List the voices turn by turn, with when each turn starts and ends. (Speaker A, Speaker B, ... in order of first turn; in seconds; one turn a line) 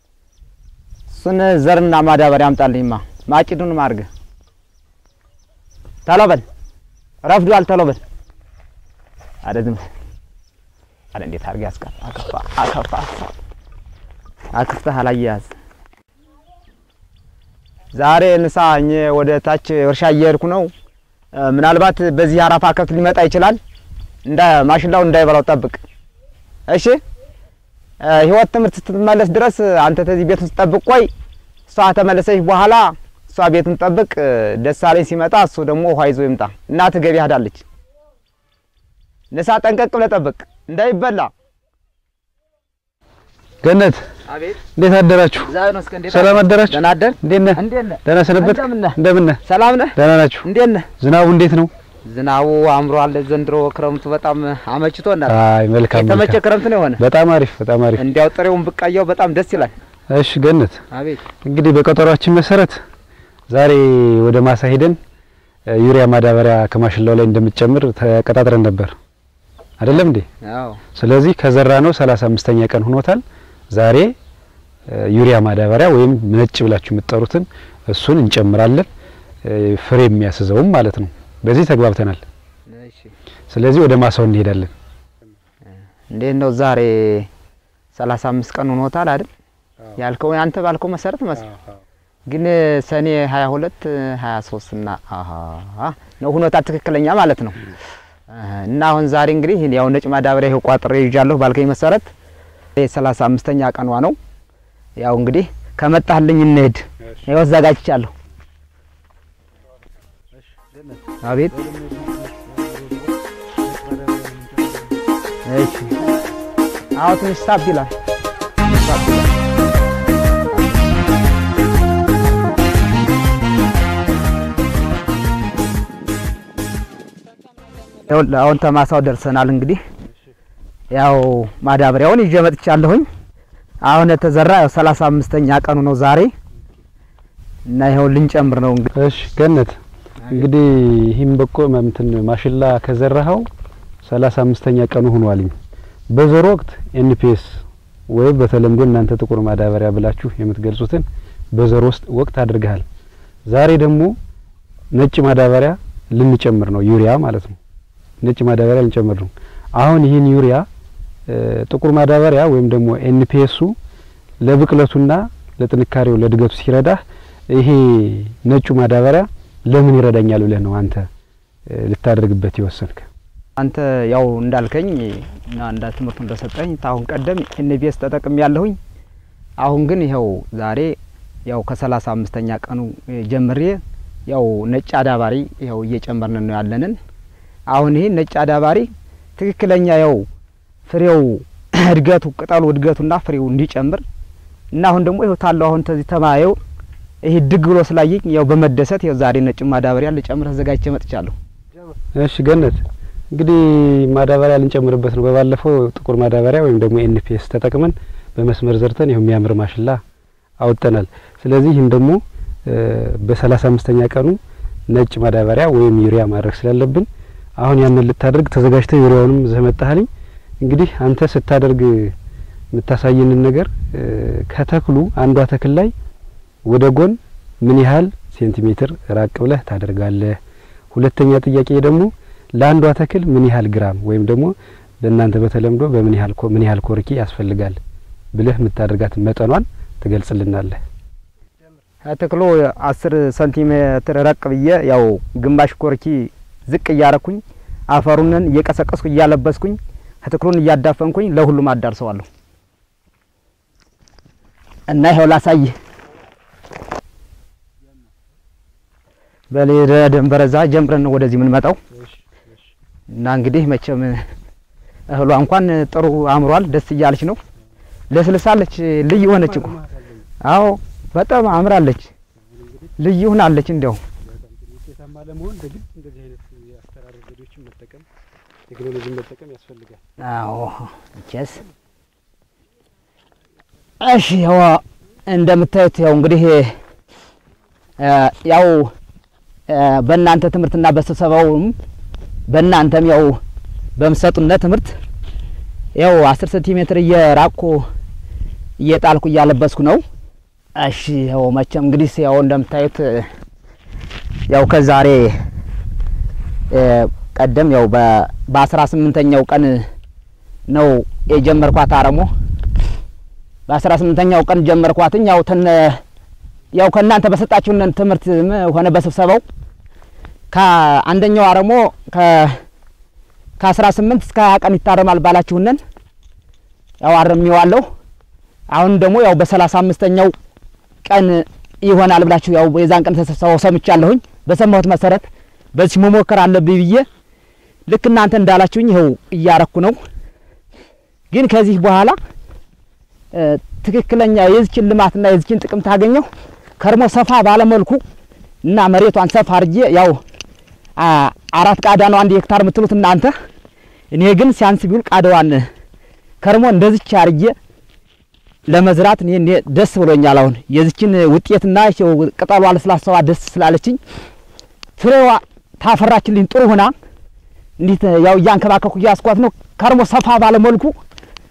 Speaker A: 1.1-4.1
Speaker A: 6.0-6.4
Speaker A: 7.2-8.0
Speaker A: 9.4-9.8
Speaker A: 11.1-13.3
Speaker A: 14.5-15.5
Speaker A: 17.9-20.7
Speaker A: 21.3-23.6
Speaker A: 24.2-25.8
Speaker A: 26.7-27.0
Speaker A: 28.0-31.1
Speaker A: 31.7-37.6
Speaker A: 39.3-41.3
Speaker B: 43.6-44.0
Speaker A: 44.3-44.6
Speaker B: 44.7-45.5
Speaker A: 45.4-50.9
Speaker B: 46.1-49.4
Speaker B: 49.9-50.5
Speaker B: 51.0-51.7
Speaker A: 52.0-55.4
Speaker B: 55.3-56.4
Speaker A: 55.9-57.0
Speaker B: 57.0-58.0
Speaker A: 58.0-59.7
Speaker B: 60.1-60.8
Speaker A: 60.9-61.2
Speaker B: 61.4-62.8
Speaker B: 63.5-65.0
Speaker B: 65.7-68.9
Speaker B: 69.8-70.2
Speaker A: 70.4-70.8
Speaker B: 70.9-74.1
Speaker B: 74.9-78.9
Speaker B: 79.4-82.2
Speaker A: 82.7-83.1
Speaker B: 83.5-84.7
Speaker A: 86.1-87.3
Speaker A: 87.9-89.3
Speaker A: 90.0-91.5
Speaker A: 92.3-97.7
Speaker A: 98.3-102.1
Speaker A: 102.8-104.2
Speaker A: 105.0-108.1
Speaker B: 110.4-113.1
Speaker A: 111.2-111.5
Speaker B: 113.7-115.0
Speaker A: 115.5-115.9
Speaker A: 116.9-117.9
Speaker A: 118.6-119.3
Speaker A: 128.0-129.8
Speaker A: 130.9-133.1
Speaker A: 133.8-136.3
Speaker A: 137.7-138.9
Speaker B: 138.9-139.8
Speaker B: 140.3-143.5
Speaker B: 144.0-145.5
Speaker B: 146.1-152.8
Speaker B: 153.5-154.2
Speaker B: 154.9-157.6
Speaker B: 158.2-160.7
Speaker B: 161.3-163.8
Speaker B: 164.4-171.1
Speaker B: 171.7-173.1
Speaker A: 173.6-178.8
Speaker A: 179.6-187.0
Speaker A: 187.7-190.3
Speaker A: 190.9-194.0
Speaker A: 194.7-196.6
Speaker A: 197.2-201.3
Speaker B: 202.1-210.0
Speaker B: 210.6-217.1
Speaker B: 217.6-220.1
Speaker B: 220.6-222.1
Speaker B: 222.7-225.9
Speaker B: 226.7-230.4
Speaker B: 230.9-237.8
Speaker B: 238.3-240.8
Speaker A: 242.0-252.2
Speaker A: 254.9-255.8
Speaker A: 259.5-261.8
Speaker B: 262.0-262.4
Speaker A: 263.1-264.3
Speaker A: 265.1-267.4
Speaker A: 268.1-269.8
Speaker B: 269.2-270.2
Speaker A: 270.4-272.1
Speaker B: 272.5-272.9
Speaker A: 273.0-274.0
Speaker B: 274.2-278.1
Speaker B: 278.7-280.0
Speaker A: 280.2-281.6
Speaker A: 284.0-286.7
Speaker A: 288.0-288.9
Speaker A: 289.7-291.8
Speaker A: 292.5-293.4
Speaker A: 294.0-294.9
Speaker A: 295.9-297.9
Speaker A: 298.8-300.0
Speaker A: 300.8-303.3
Speaker A: 304.5-305.4
Speaker A: 306.7-309.9
Speaker A: 310.7-312.3
Speaker A: 313.7-316.0
Speaker A: 316.7-319.4
Speaker A: 320.5-322.6
Speaker A: 323.6-325.8
Speaker A: 327.0-327.9
Speaker A: 328.7-330.3
Speaker A: 331.0-337.1
Speaker A: 337.9-340.0
Speaker A: 341.3-342.2
Speaker A: 343.3-346.3
Speaker A: 346.8-348.0
Speaker A: 348.6-350.2
Speaker A: 351.0-353.3
Speaker A: 354.1-355.7
Speaker A: 356.4-357.5
Speaker A: 358.7-364.0
Speaker A: 365.0-366.9
Speaker A: 367.8-371.0